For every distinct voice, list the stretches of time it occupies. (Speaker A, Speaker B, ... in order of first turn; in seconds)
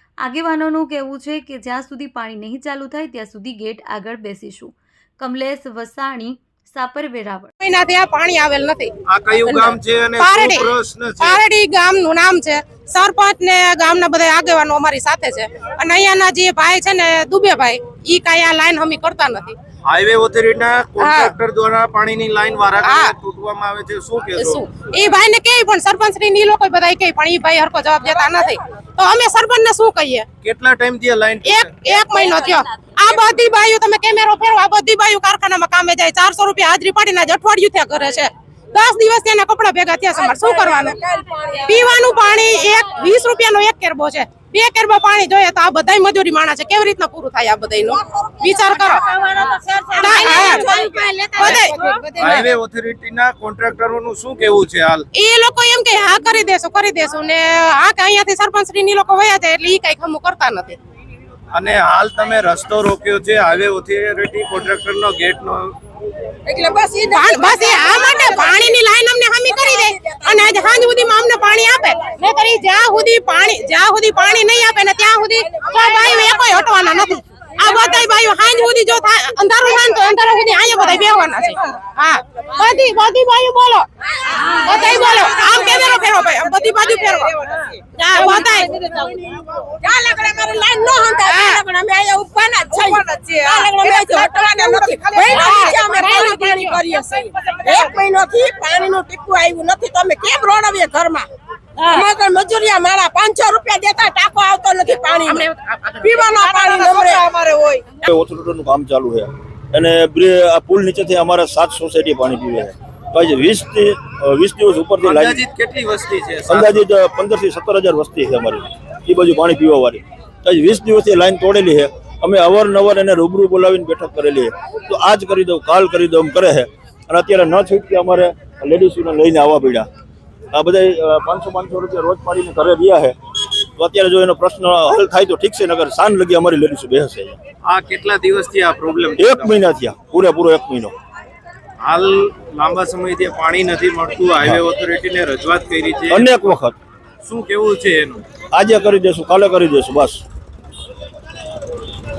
Speaker A: 0.2-7.5
Speaker B: 7.6-8.9, 9.4-19.6, 21.0-21.3, 22.8-23.1, 24.4-30.2, 31.4-41.0, 41.6-49.0, 50.0-52.5, 55.1-60.8, 67.1-89.2, 91.2-91.6, 93.8-96.8, 105.2-107.1
Speaker C: 9.1-11.4, 19.8-24.6, 30.4-31.7, 52.2-55.0, 61.5-65.8, 115.0-116.8, 137.6-139.6, 141.8-146.3, 147.2-148.2
Speaker D: 40.2-41.7, 48.2-52.3, 66.5-68.4, 89.8-105.5, 106.0-107.8
Speaker E: 108.0-115.4, 116.5-129.9, 130.5-137.4, 139.2-140.9, 146.1-146.7, 148.5-150.2